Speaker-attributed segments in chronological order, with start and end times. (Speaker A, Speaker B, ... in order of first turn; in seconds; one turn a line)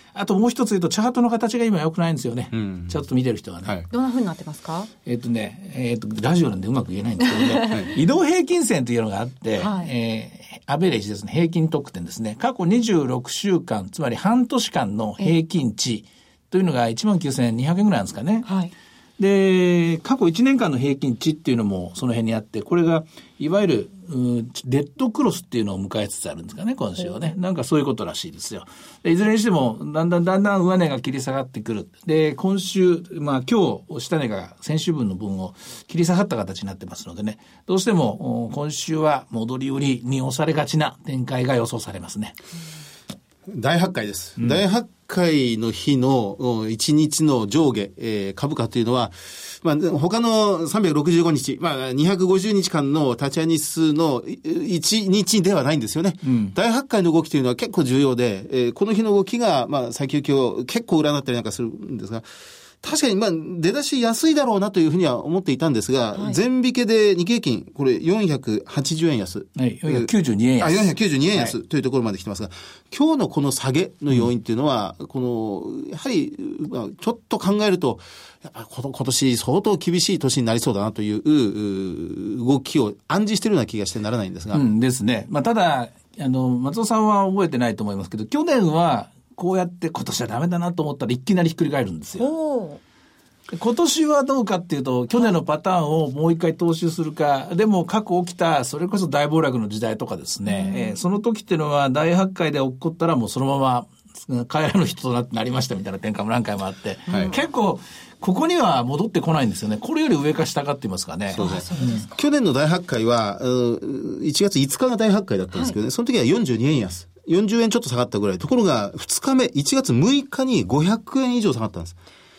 Speaker A: 0.1-3.8
Speaker B: 2.5-3.0
Speaker C: 3.9-4.9
Speaker A: 5.0-18.5
Speaker C: 9.6-9.9
Speaker C: 18.4-18.7
Speaker A: 19.2-42.4
Speaker B: 43.5-62.2
Speaker A: 56.2-56.5
Speaker B: 62.8-84.6
Speaker A: 69.6-71.5
Speaker A: 84.5-92.3
Speaker C: 92.2-92.8
Speaker A: 93.5-112.0
Speaker C: 100.5-101.0
Speaker C: 107.1-107.3
Speaker B: 111.3-122.0
Speaker C: 111.3-112.2